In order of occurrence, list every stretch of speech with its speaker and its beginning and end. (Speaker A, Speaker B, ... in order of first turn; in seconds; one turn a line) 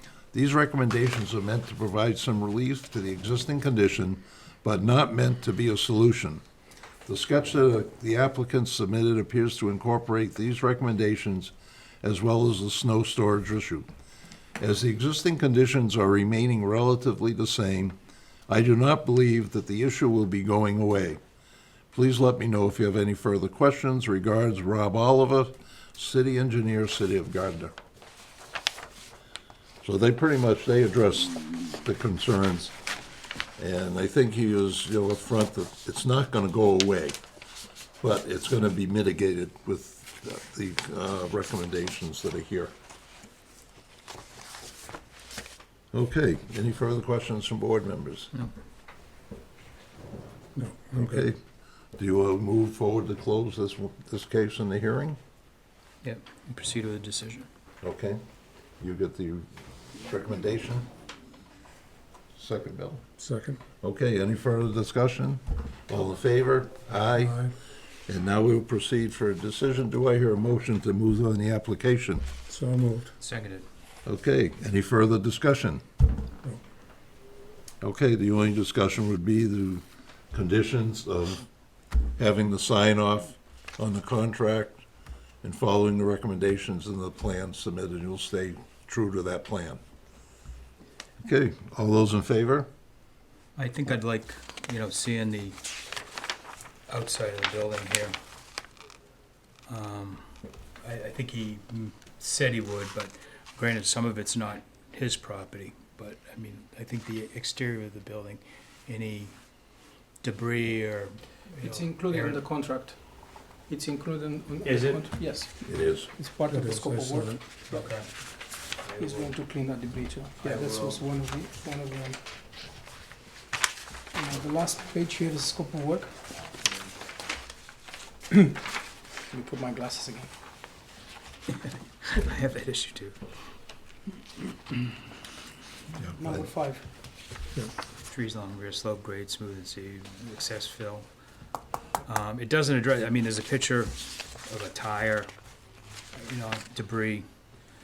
Speaker A: 0.3-6.4
Speaker A: 7.1-13.9
Speaker A: 14.6-18.0
Speaker A: 18.5-21.2
Speaker A: 21.9-27.7
Speaker A: 29.8-32.7
Speaker A: 33.6-37.2
Speaker A: 38.0-42.7
Speaker A: 45.9-48.3
Speaker B: 50.6-51.3
Speaker A: 50.9-51.4
Speaker A: 51.9-55.2
Speaker C: 56.0-57.5
Speaker A: 57.8-58.2
Speaker A: 58.8-60.9
Speaker A: 62.4-63.0
Speaker B: 63.2-63.6
Speaker A: 63.8-67.5
Speaker A: 68.1-72.2
Speaker B: 72.5-73.1
Speaker C: 73.2-73.7
Speaker A: 74.1-75.8
Speaker A: 77.8-81.5
Speaker A: 82.2-84.8
Speaker A: 85.4-89.8
Speaker A: 91.2-92.7
Speaker C: 93.6-95.6
Speaker C: 96.9-98.2
Speaker C: 99.7-109.4
Speaker C: 110.2-112.4
Speaker D: 111.6-117.9
Speaker C: 114.6-115.4
Speaker A: 115.7-116.1
Speaker B: 116.5-117.5
Speaker C: 117.7-119.3
Speaker D: 119.0-122.2
Speaker C: 120.4-121.0
Speaker D: 124.1-126.1
Speaker D: 128.3-128.6
Speaker D: 129.3-130.3
Speaker C: 131.5-133.2
Speaker A: 136.0-136.5
Speaker D: 136.2-136.9
Speaker C: 138.1-141.1
Speaker C: 142.1-145.3
Speaker C: 146.1-147.3